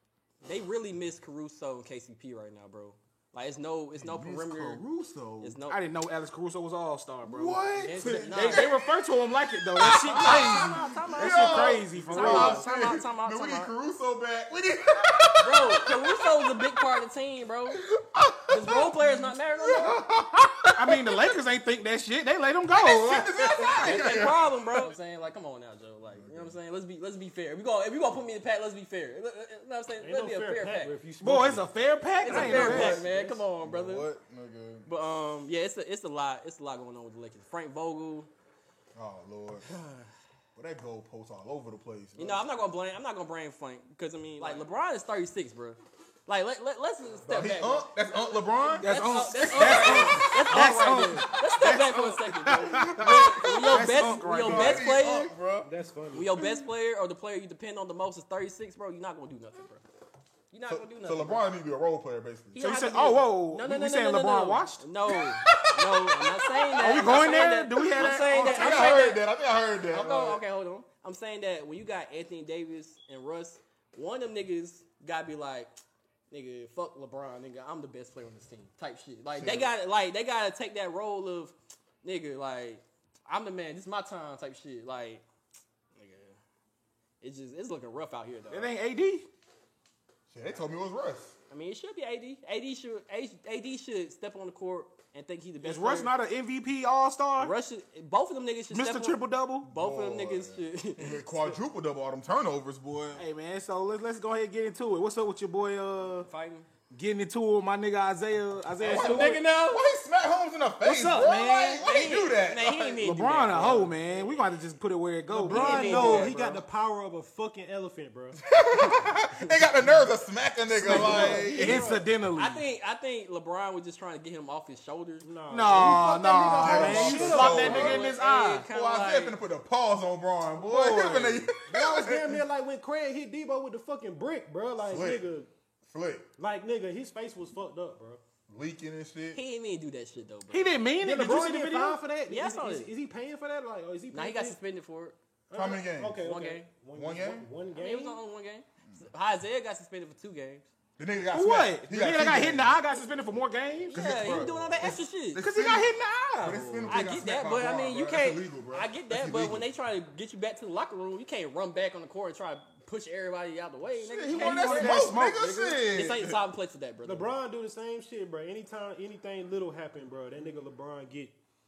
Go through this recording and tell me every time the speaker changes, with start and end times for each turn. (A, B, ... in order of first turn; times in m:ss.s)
0:00.4-0:04.8 A
0:04.0-0:05.6 B
0:05.4-0:05.8 A
0:05.7-0:12.7 C
0:07.2-0:08.8 B
0:07.8-0:08.7 A
0:09.8-0:16.6 B
0:09.9-0:13.7 A
0:15.4-0:17.8 A
0:17.8-0:21.2 B
0:18.5-0:20.0 A
0:20.8-0:24.1 C
0:22.7-0:24.9 B
0:23.7-0:30.9 A
0:26.1-0:26.6 B
0:30.0-0:31.7 D
0:31.2-0:33.0 C
0:32.2-0:34.1 A
0:32.3-0:34.9 B
0:32.4-0:33.4 D
0:34.9-0:38.3 A
0:39.0-0:39.7 B
0:39.7-0:40.1 A
0:40.6-0:42.5 B
0:42.2-0:47.9 A
0:47.3-0:50.8 B
0:48.8-0:54.8 C
0:48.8-0:55.3 A
0:52.5-0:55.7 B
0:55.6-0:56.3 D
0:56.1-0:59.8 A
1:00.5-1:01.4 A
1:00.7-1:02.8 B
1:02.5-1:09.2 A
1:02.6-1:04.8 C
1:05.1-1:07.3 B
1:06.8-1:09.0 C
1:07.9-1:10.4 B
1:09.9-1:15.7 A
1:16.3-1:25.2 A
1:19.4-1:19.7 B
1:26.0-1:26.4 A
1:27.2-1:28.7 A
1:28.5-1:29.3 C
1:30.3-1:31.4 B
1:31.5-1:36.1 A
1:35.6-1:37.5 C
1:37.4-1:41.3 A
1:38.7-1:39.7 C
1:39.7-1:43.2 B
1:43.2-1:46.3 C
1:46.2-1:46.7 A
1:46.9-1:49.4 C
1:48.8-1:49.9 A
1:48.8-1:53.0 B
1:50.8-1:51.9 C
1:51.7-1:54.3 A
1:53.0-1:56.6 C
1:55.3-1:58.4 D
1:55.5-1:56.4 A
1:58.5-2:02.0 B
2:00.8-2:02.6 C
2:00.8-2:02.1 D
2:00.9-2:01.3 A
2:02.3-2:05.3 A
2:05.2-2:08.0 D
2:05.5-2:08.7 C
2:06.6-2:08.1 B
2:07.3-2:09.4 A
2:08.7-2:12.4 B
2:10.6-2:11.5 C
2:11.7-2:15.5 D
2:14.9-2:15.2 B
2:15.9-2:16.3 B
2:16.4-2:18.2 D
2:18.5-2:19.4 B
2:19.3-2:20.8 A
2:20.5-2:22.0 C
2:21.0-2:24.6 D
2:22.3-2:22.9 A
2:24.1-2:25.2 A
2:25.5-2:28.2 D
2:25.5-2:26.2 B
2:26.2-2:26.7 A
2:26.9-2:27.5 B
2:27.8-2:30.7 A
2:31.0-2:32.7 B
2:31.3-2:34.0 C
2:33.9-2:35.4 A
2:33.9-2:39.7 B
2:35.4-2:37.0 C
2:36.9-2:45.2 A
2:44.1-2:45.8 C
2:44.2-2:46.4 B
2:45.9-2:47.3 A
2:47.0-2:51.4 D